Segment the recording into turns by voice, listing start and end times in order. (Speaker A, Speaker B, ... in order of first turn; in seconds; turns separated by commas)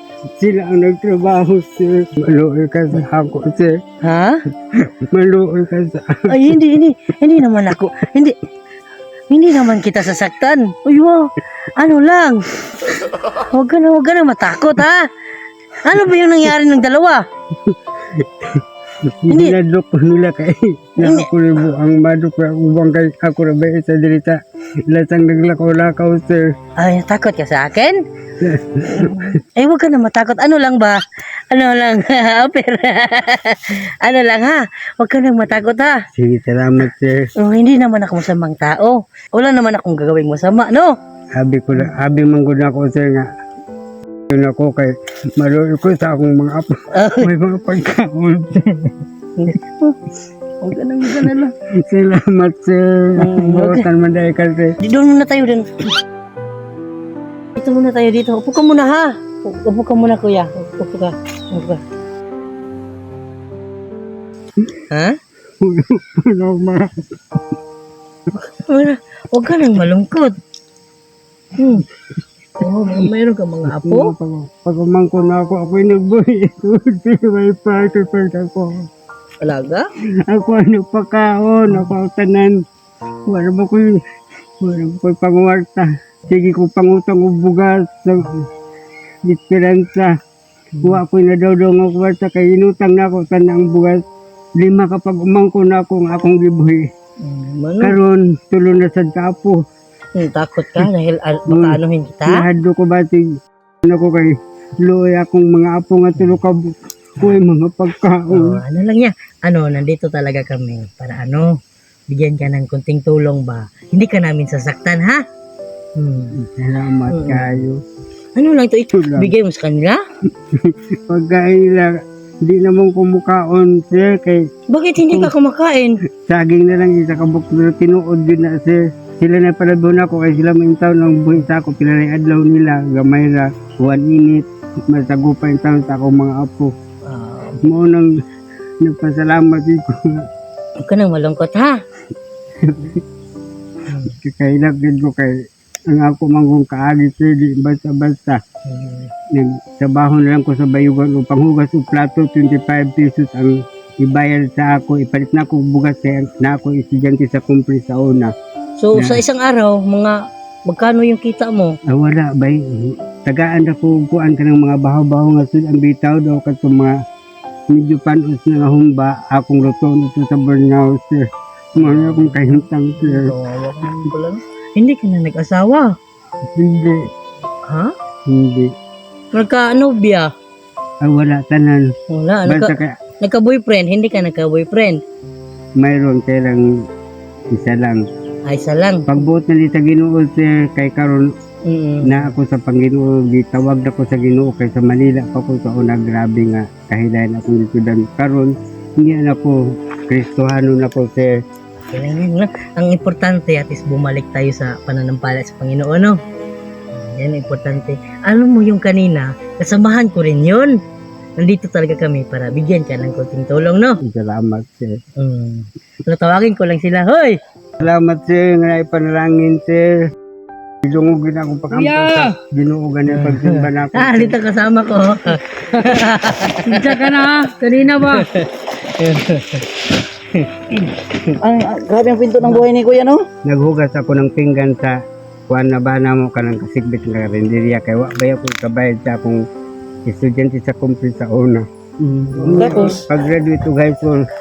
Speaker A: 0.4-3.7, Speaker B: 4.0-4.4, Speaker A: 5.1-6.5, Speaker B: 6.3-8.4, Speaker B: 9.3-12.5, Speaker B: 13.3-15.1, Speaker B: 15.8-17.2, Speaker A: 17.7-24.4, Speaker B: 19.3-19.6, Speaker B: 21.0-21.3, Speaker A: 24.9-26.4, Speaker B: 26.8-28.0, Speaker A: 28.4-29.2, Speaker B: 28.9-36.0, Speaker A: 36.2-37.3, Speaker B: 37.4-41.0, Speaker A: 41.4-43.3, Speaker A: 44.3-48.9, Speaker B: 46.9-47.3, Speaker B: 49.4-49.9, Speaker B: 50.6-51.5, Speaker A: 51.9-54.8, Speaker B: 53.2-53.9, Speaker B: 54.8-55.7, Speaker B: 57.6-61.8, Speaker B: 64.9-65.2, Speaker A: 65.6-67.1, Speaker B: 68.4-70.3, Speaker B: 71.6-71.8, Speaker B: 72.6-74.1, Speaker A: 73.7-78.9, Speaker B: 79.4-79.9, Speaker A: 80.2-82.5, Speaker A: 83.3-83.9, Speaker A: 84.6-88.3, Speaker A: 89.3-90.1, Speaker A: 90.8-94.0, Speaker A: 94.6-96.8, Speaker B: 97.2-98.0, Speaker A: 97.8-99.6, Speaker B: 100.2-102.5, Speaker A: 101.5-103.3, Speaker A: 103.8-106.6, Speaker A: 107.2-108.5, Speaker B: 108.3-111.5, Speaker B: 112.1-115.2, Speaker B: 116.0-116.3, Speaker A: 116.4-117.8, Speaker B: 117.1-117.6, Speaker B: 118.4-120.0, Speaker A: 118.9-119.3, Speaker A: 120.7-124.4, Speaker B: 124.7-126.0, Speaker A: 125.0-125.3, Speaker A: 126.2-136.7, Speaker B: 137.1-137.6, Speaker A: 137.6-138.1, Speaker A: 138.8-140.2, Speaker B: 140.8-141.8, Speaker A: 142.6-143.0, Speaker B: 143.9-144.2, Speaker A: 144.2-145.3, Speaker A: 145.9-148.4, Speaker B: 148.7-149.1, Speaker A: 149.3-158.3, Speaker B: 158.8-161.8, Speaker A: 159.0-159.2, Speaker A: 161.9-166.9, Speaker A: 167.7-171.2, Speaker A: 171.8-173.3, Speaker B: 171.8-175.9, Speaker A: 176.6-177.0, Speaker B: 177.7-177.9, Speaker A: 178.3-178.7, Speaker B: 179.3-180.3, Speaker A: 181.0-181.9, Speaker B: 182.1-185.0, Speaker A: 182.5-183.0, Speaker A: 185.8-186.7, Speaker A: 187.5-188.0, Speaker B: 188.5-189.1, Speaker A: 189.1-191.3, Speaker B: 191.7-192.4, Speaker A: 192.1-199.6, Speaker A: 200.1-201.3, Speaker B: 201.9-206.2, Speaker B: 206.9-210.8, Speaker B: 211.4-214.0, Speaker A: 214.1-215.0, Speaker B: 215.2-217.4, Speaker A: 217.8-219.9, Speaker A: 220.8-224.4, Speaker C: 221.7-222.4, Speaker B: 223.1-226.9, Speaker C: 226.7-228.3, Speaker B: 228.1-228.5, Speaker B: 229.0-229.7, Speaker B: 230.3-231.3, Speaker D: 231.4-233.2, Speaker A: 233.4-234.9, Speaker A: 235.5-239.4, Speaker A: 240.1-241.7, Speaker C: 242.1-242.4, Speaker A: 242.4-244.2, Speaker D: 242.6-242.9